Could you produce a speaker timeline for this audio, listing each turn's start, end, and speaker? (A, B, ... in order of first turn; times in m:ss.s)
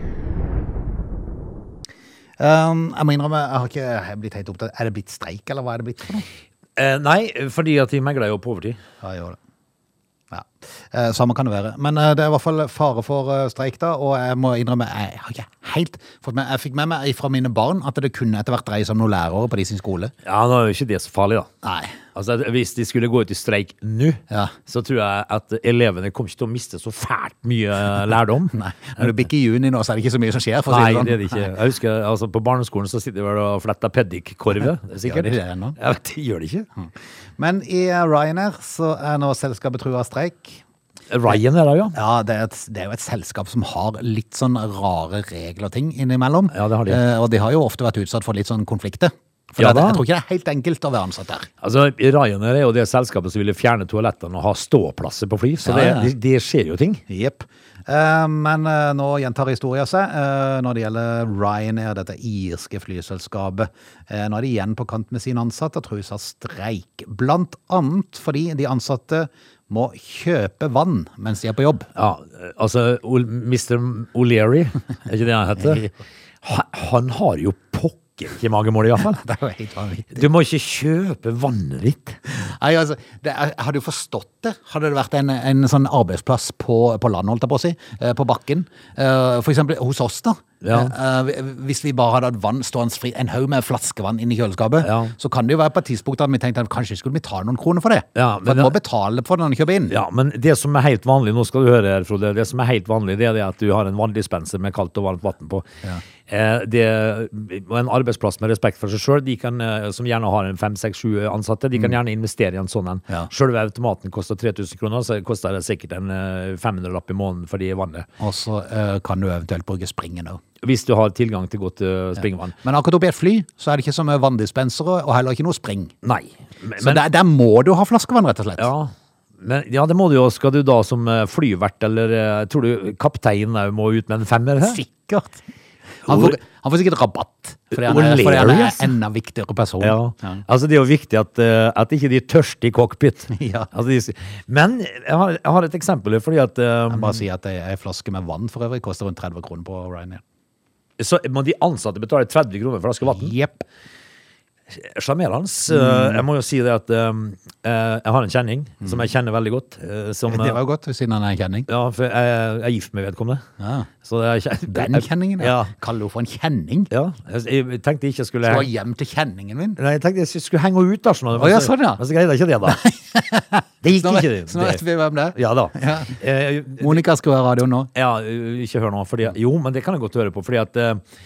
0:02.4-0:06.2 A
0:06.8-0:08.8 B
0:09.0-0:09.4 A
0:10.3-0:20.1 A
0:20.2-0:21.5 B
0:21.6-0:22.0 A
0:22.1-0:29.1 B
0:28.5-0:31.5 A
0:30.7-0:36.7 B
0:35.0-0:35.8 A
0:36.8-0:40.6 A
0:41.1-0:41.9 B
0:41.9-0:51.5 A
0:46.5-0:47.0 B
0:49.6-0:50.0 B
0:51.6-0:57.0 B
0:55.6-0:56.1 A
0:57.1-1:11.9 A
1:11.9-1:15.9 B
1:15.6-1:15.9 A
1:16.4-1:19.2 B
1:19.1-1:20.3 A
1:20.1-1:22.2 B
1:22.3-1:40.0 A
1:30.6-1:30.9 B
1:34.8-1:35.1 B
1:38.2-1:38.7 B
1:39.9-1:45.7 B
1:46.2-1:58.1 B
1:58.2-2:00.4 A
2:00.6-2:02.6 B
2:02.2-2:05.9 A
2:06.0-2:07.0 B
2:06.8-2:08.7 A
2:08.6-2:14.8 B
2:14.6-2:15.4 A
2:16.0-2:20.4 A
2:16.1-2:16.4 B
2:17.7-2:18.9 B
2:19.8-2:27.2 B
2:23.3-2:23.7 A
2:26.9-2:30.2 A
2:31.0-2:33.3 B
2:33.0-2:33.6 A
2:34.7-2:40.6 B
2:35.7-2:36.2 A
2:40.3-2:41.7 A
2:41.7-2:43.4 B
2:43.6-2:43.9 A
2:44.0-2:45.7 B
2:44.7-2:46.9 A
2:46.9-2:48.7 B
2:48.4-2:49.8 A
2:49.8-2:52.8 B
2:51.3-2:52.0 A
2:52.6-2:56.2 A
2:53.8-2:54.8 B
2:55.3-2:57.0 B
2:56.8-2:57.9 A
2:57.9-3:01.0 B